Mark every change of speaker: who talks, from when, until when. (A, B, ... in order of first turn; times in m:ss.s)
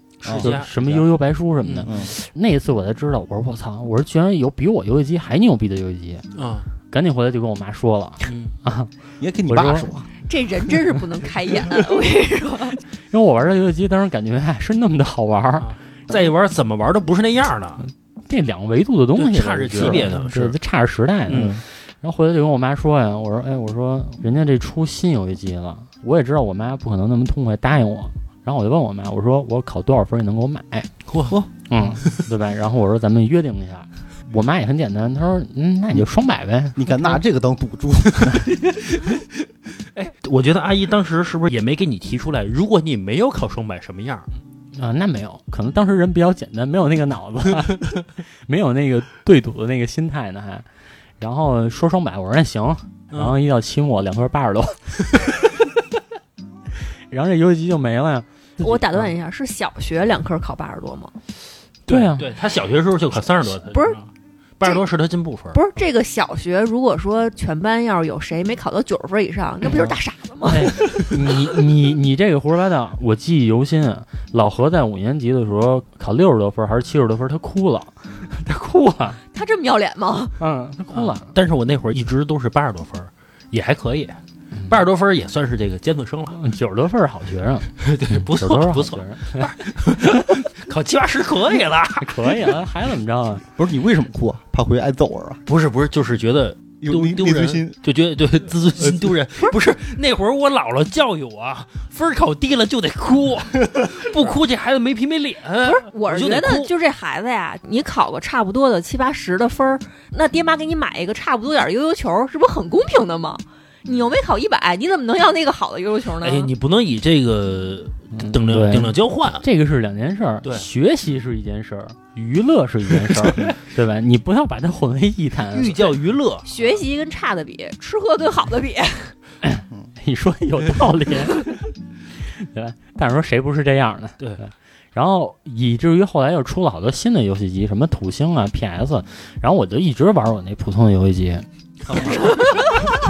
0:00.2-0:01.0 A
0:00.2-0:00.6 B
0:00.3-0:06.2 C
0:01.6-0:01.9 A
0:01.8-0:02.1 B
0:06.4-0:06.7 A
0:06.9-0:08.9 C
0:08.2-0:08.5 A
0:09.2-0:10.1 B
0:09.5-0:09.9 C
0:10.3-0:12.8 D
0:13.1-0:15.7 C
0:15.6-0:17.8 A
0:18.3-0:30.9 C
0:19.2-0:20.6 A
0:21.3-0:21.6 A
0:21.3-0:21.6 B
0:31.1-0:31.4 A
0:31.7-0:37.2 C
0:36.8-0:38.5 B
0:38.6-0:44.3 A
0:44.7-0:47.9 C
0:48.4-0:50.7 C
0:51.2-0:55.4 C
0:53.1-0:53.4 A
0:57.1-0:59.1 C
0:58.6-1:01.1 D
1:01.9-1:05.6 A
1:01.9-1:02.3 C
1:03.6-1:04.0 D
1:05.5-1:10.7 D
1:10.5-1:19.2 C
1:19.3-1:20.4 D
1:20.4-1:21.3 C
1:20.9-1:26.4 A
1:26.3-1:30.1 C
1:27.8-1:32.4 A
1:32.0-1:33.4 C
1:33.6-1:35.4 B
1:35.5-1:46.7 A
1:36.8-1:37.8 B
1:38.8-1:39.2 B
1:45.6-1:56.5 D
1:56.2-1:59.4 A
1:58.1-2:05.8 C
2:03.1-2:03.5 A
2:05.5-2:06.5 A
2:06.4-2:09.1 D
2:09.4-2:11.5 C
2:12.4-2:22.3 C
2:21.9-2:22.5 A